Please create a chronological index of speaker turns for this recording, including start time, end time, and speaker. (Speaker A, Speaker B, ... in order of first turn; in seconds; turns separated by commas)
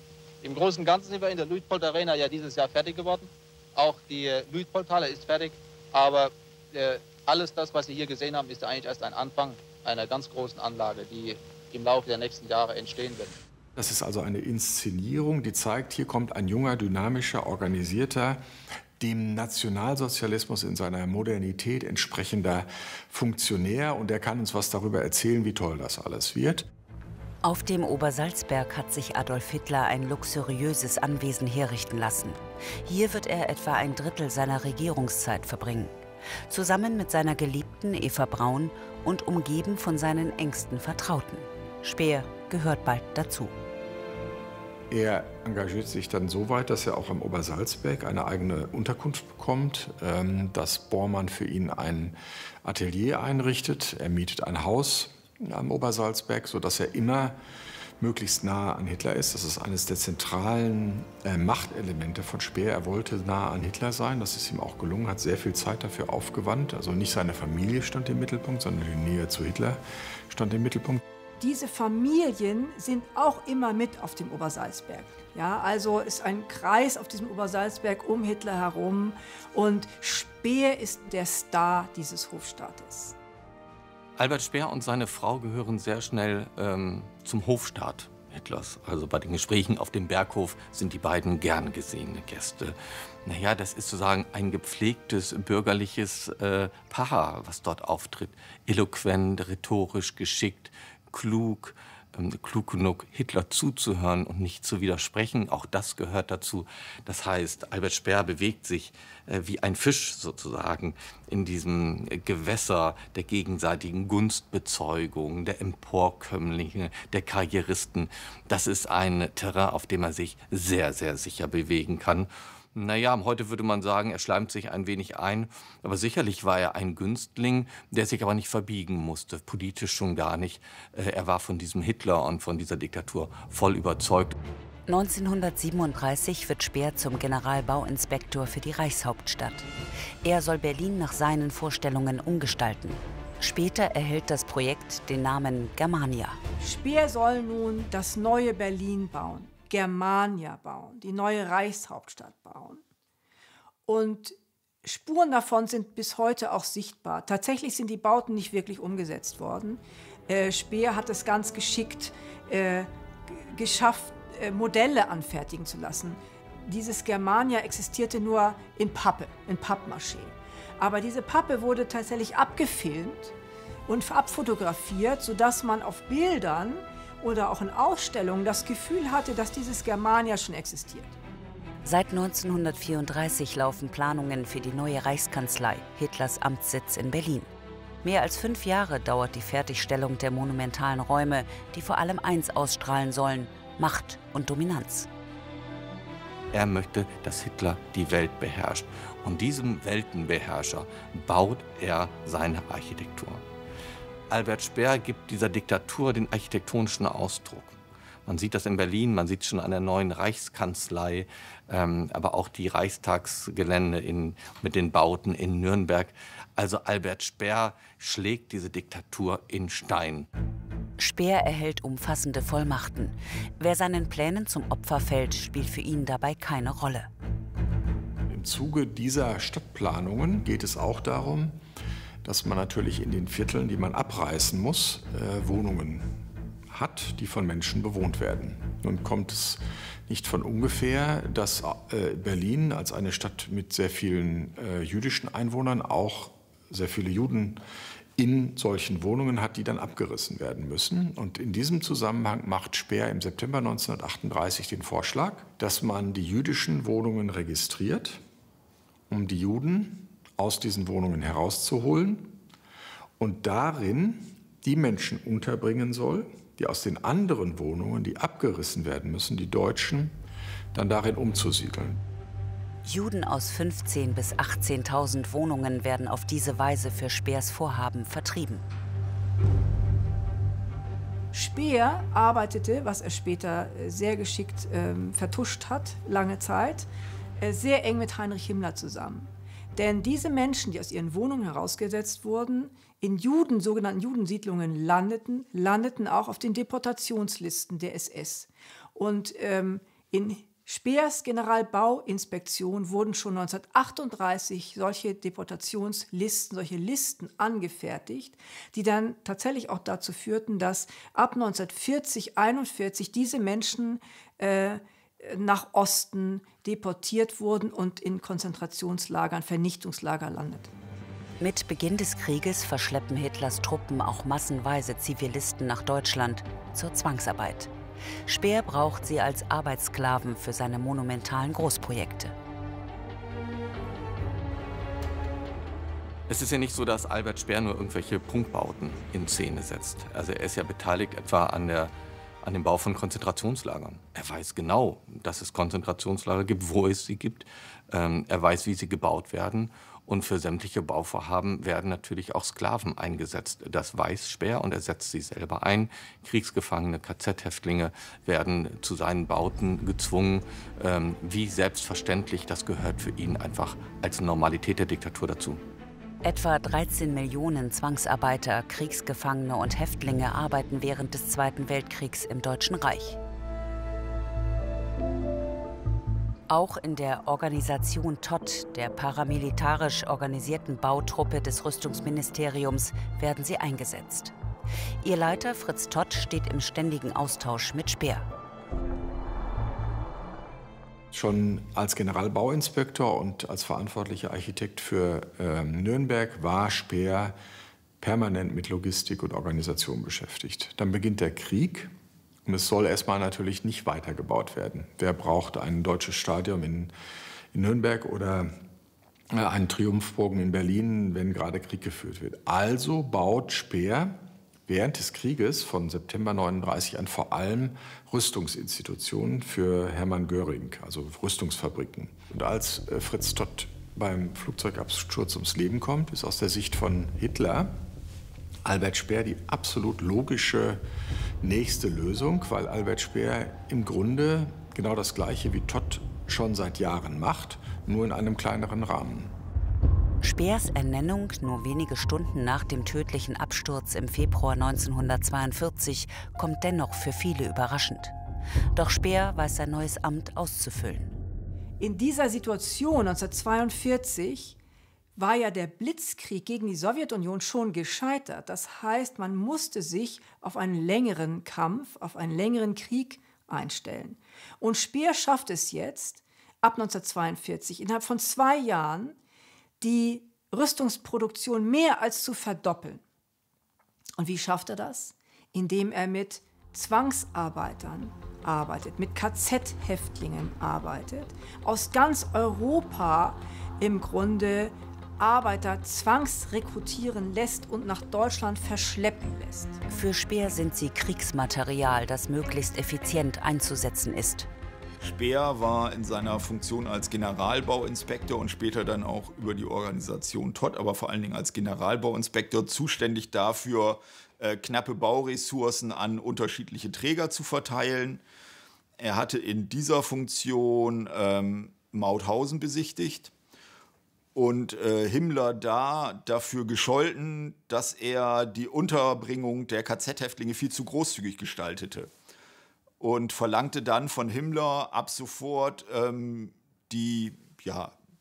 Speaker A: 0.4-13.3, Speaker B: 13.8-18.4, Speaker B: 19.0-26.7, Speaker C: 27.4-35.9, Speaker C: 36.5-43.5, Speaker B: 44.9-57.4, Speaker B: 58.0-71.0, Speaker D: 71.4-83.2, Speaker E: 84.2-134.3, Speaker C: 134.9-139.7, Speaker C: 140.2-146.4, Speaker D: 146.6-152.8, Speaker D: 153.9-173.3, Speaker D: 173.9-181.2, Speaker C: 181.8-187.5, Speaker C: 188.0-195.1, Speaker E: 196.5-203.4, Speaker E: 204.3-220.3, Speaker C: 221.0-227.1, Speaker B: 228.3-231.6, Speaker B: 232.2-236.1, Speaker B: 236.7-247.6, Speaker B: 248.2-258.2, Speaker B: 259.1-262.4, Speaker B: 263.2-270.2, Speaker B: 270.7-272.0, Speaker C: 272.8-278.6, Speaker D: 281.3-286.9, Speaker D: 287.4-320.7, Speaker C: 321.4-327.7, Speaker C: 328.3-332.3, Speaker E: 336.3-341.9, Speaker E: 342.4-365.6, Speaker C: 366.2-373.2, Speaker C: 376.5-384.3, Speaker C: 385.0-388.3, Speaker B: 391.1-397.4, Speaker B: 398.0-401.9, Speaker B: 402.4-406.9, Speaker B: 407.5-408.5, Speaker B: 409.3-427.8, Speaker B: 428.6-430.8, Speaker B: 431.4-439.3, Speaker C: 440.2-448.1, Speaker C: 448.7-451.1, Speaker D: 451.8-454.6, Speaker D: 455.1-469.1, Speaker D: 469.8-473.0, Speaker D: 474.2-489.8, Speaker C: 489.9-494.5, Speaker F: 495.0-508.2, Speaker F: 509.0-513.3, Speaker F: 514.3-522.1, Speaker F: 523.0-527.9